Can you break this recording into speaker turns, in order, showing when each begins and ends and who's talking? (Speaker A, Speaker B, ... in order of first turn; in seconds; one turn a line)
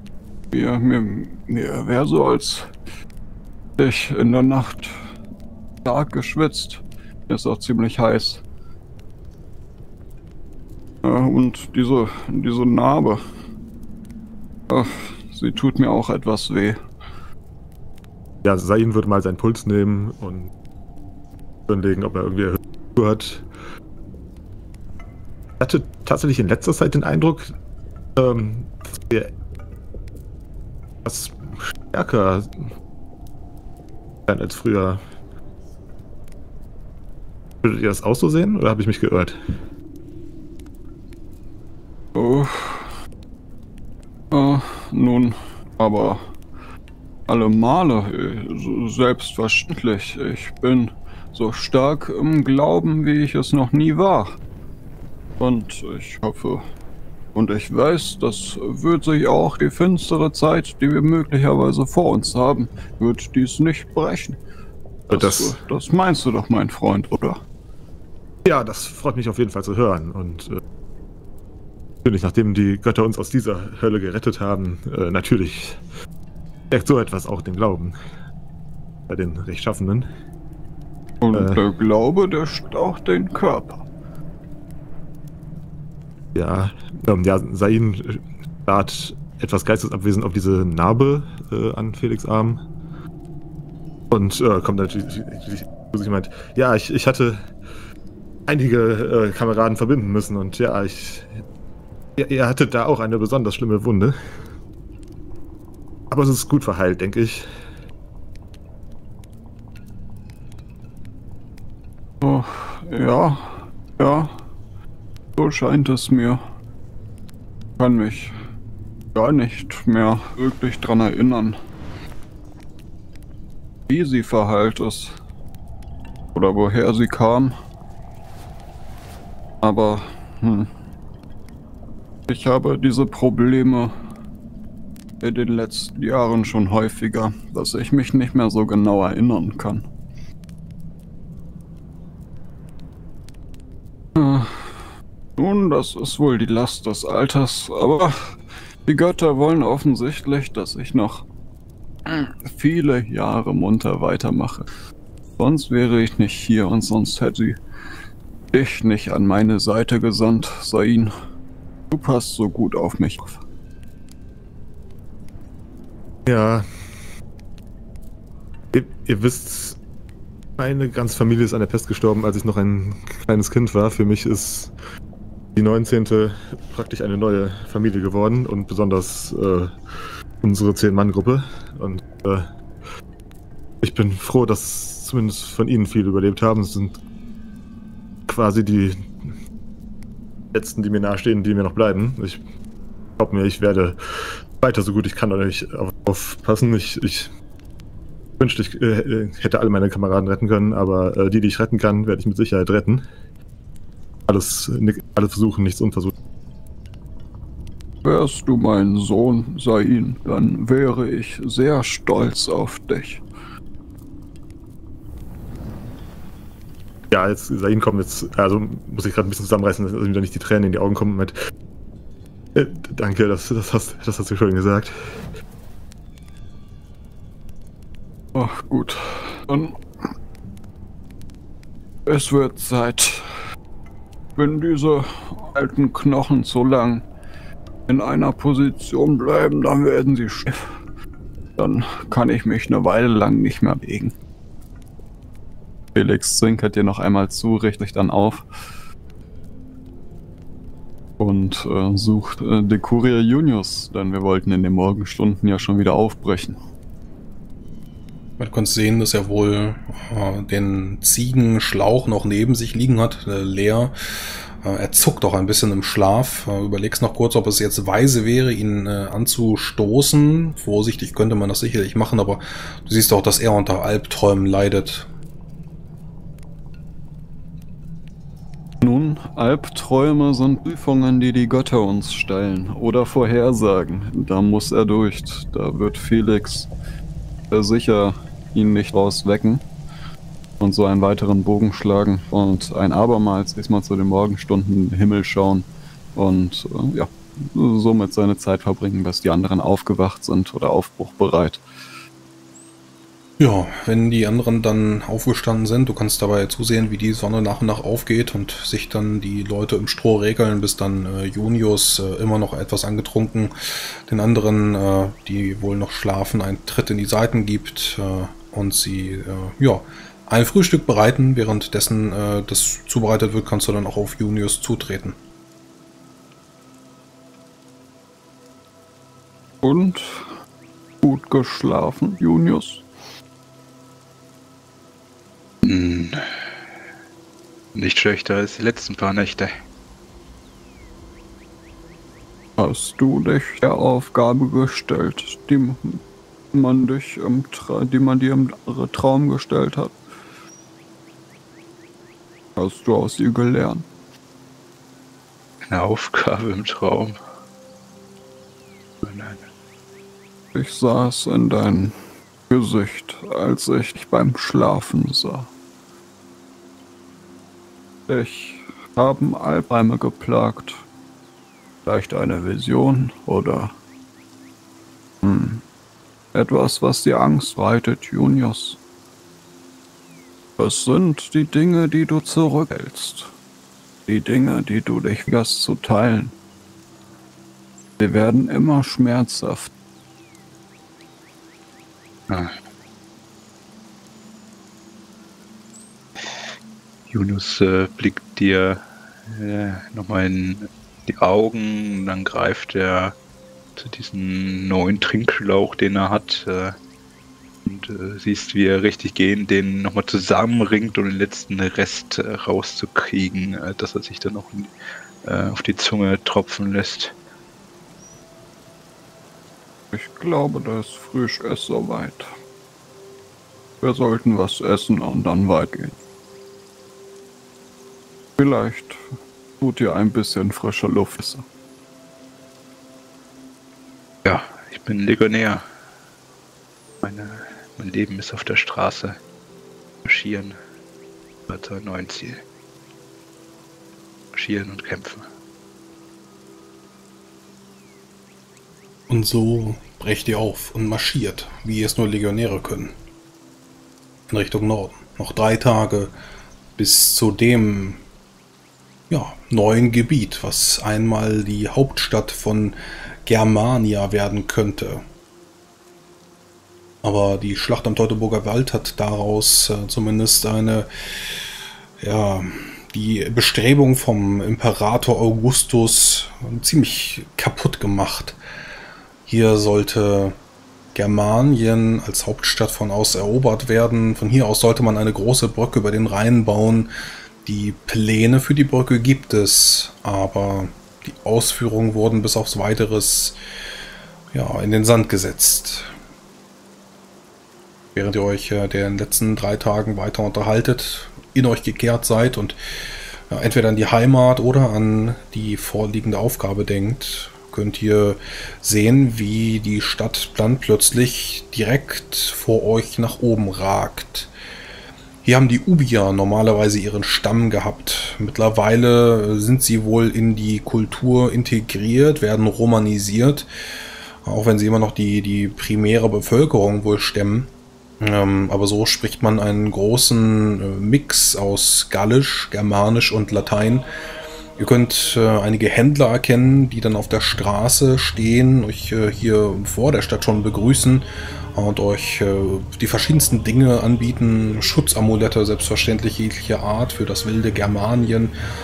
Speaker A: 0.5-2.7
Speaker A: 3.8-4.9
Speaker A: 5.8-8.4
Speaker A: 11.0-13.2
Speaker A: 14.7-16.8
Speaker B: 18.4-20.5
Speaker B: 21.7-23.5
Speaker B: 25.6-27.5
Speaker B: 28.1-29.3
Speaker B: 31.0-32.6
Speaker B: 34.3-35.0
Speaker B: 37.6-39.4
Speaker A: 42.1-42.9
Speaker A: 44.3-46.2
Speaker A: 47.3-54.4
Speaker A: 55.4-56.6
Speaker A: 57.3-64.4
Speaker B: 65.1-65.5
Speaker A: 65.1-67.4
Speaker B: 68.4-70.6
Speaker B: 72.0-75.8
Speaker B: 76.7-77.9
Speaker B: 79.1-80.1
Speaker A: 81.2-83.8
Speaker B: 81.3-81.6
Speaker B: 86.3-92.6
Speaker B: 94.1-97.5
Speaker B: 98.5-101.4
Speaker B: 102.2-104.2
Speaker B: 106.1-107.5
Speaker A: 112.2-114.3
Speaker A: 115.4-116.4
Speaker A: 117.8-118.3
Speaker A: 119.1-121.6
Speaker A: 123.9-125.2
Speaker A: 126.3-127.5
Speaker A: 129.6-130.7
Speaker A: 132.3-133.9
Speaker A: 135.2-139.8
Speaker A: 144.2-144.8
Speaker A: 145.4-148.3
Speaker A: 148.8-151.2
Speaker A: 152.1-154.7
Speaker A: 155.4-157.6
Speaker A: 158.5-161.1
Speaker A: 161.9-163.4
Speaker B: 166.2-166.6
Speaker B: 168.7-169.8
Speaker B: 170.6-174.7
Speaker B: 175.6-179.8
Speaker B: 180.4-182.5
Speaker B: 183.8-187.0
Speaker B: 188.3-189.1
Speaker B: 190.5-192.4
Speaker B: 193.2-197.3
Speaker B: 198.4-203.1
Speaker B: 204.3-206.1
Speaker A: 208.0-213.2
Speaker B: 217.1-221.3
Speaker B: 222.5-224.9
Speaker A: 228.3-229.8
Speaker A: 232.1-233.2
Speaker A: 234.3-237.0
Speaker A: 237.9-240.6
Speaker A: 241.6-244.1
Speaker A: 245.9-248.4
Speaker A: 251.2-256.6
Speaker C: 258.4-263.9
Speaker C: 264.6-275.1
Speaker A: 278.8-286.7
Speaker A: 287.5-289.6
Speaker A: 290.6-301.6
Speaker C: 303.4-313.5
Speaker C: 314.1-325.1
Speaker A: 329.6-330.3
Speaker A: 331.0-332.8
Speaker D: 335.6-336.2
Speaker D: 337.7-339.5
Speaker A: 342.6-346.0
Speaker A: 346.5-350.0
Speaker A: 352.6-353.9
Speaker D: 355.6-357.1
Speaker D: 359.0-359.4
Speaker A: 360.5-361.9
Speaker A: 362.5-365.5
Speaker A: 368.1-370.8
Speaker A: 371.9-373.7
Speaker A: 375.2-375.6
Speaker A: 376.3-378.8
Speaker A: 380.6-383.3
Speaker A: 384.1-386.3
Speaker A: 388.0-389.7
Speaker D: 392.3-392.5
Speaker D: 397.1-403.2
Speaker D: 403.8-406.8
Speaker D: 407.6-414.7
Speaker D: 415.2-417.1
Speaker A: 419.9-422.3
Speaker A: 423.8-426.0
Speaker A: 428.4-429.0
Speaker A: 429.6-431.4
Speaker D: 434.2-435.6
Speaker D: 437.0-439.2
Speaker D: 440.0-440.6
Speaker D: 441.5-442.4
Speaker D: 444.3-445.3
Speaker C: 449.1-452.9
Speaker C: 454.3-456.1
Speaker C: 456.8-458.0
Speaker C: 459.1-465.0
Speaker C: 467.0-470.9
Speaker C: 472.0-478.4
Speaker C: 479.3-480.4
Speaker C: 480.9-486.9
Speaker C: 487.4-493.4
Speaker C: 494.3-495.9
Speaker C: 497.9-502.6
Speaker C: 503.3-514.3
Speaker C: 515.2-523.5
Speaker C: 524.2-527.5
Speaker C: 528.0-533.9
Speaker C: 534.6-548.3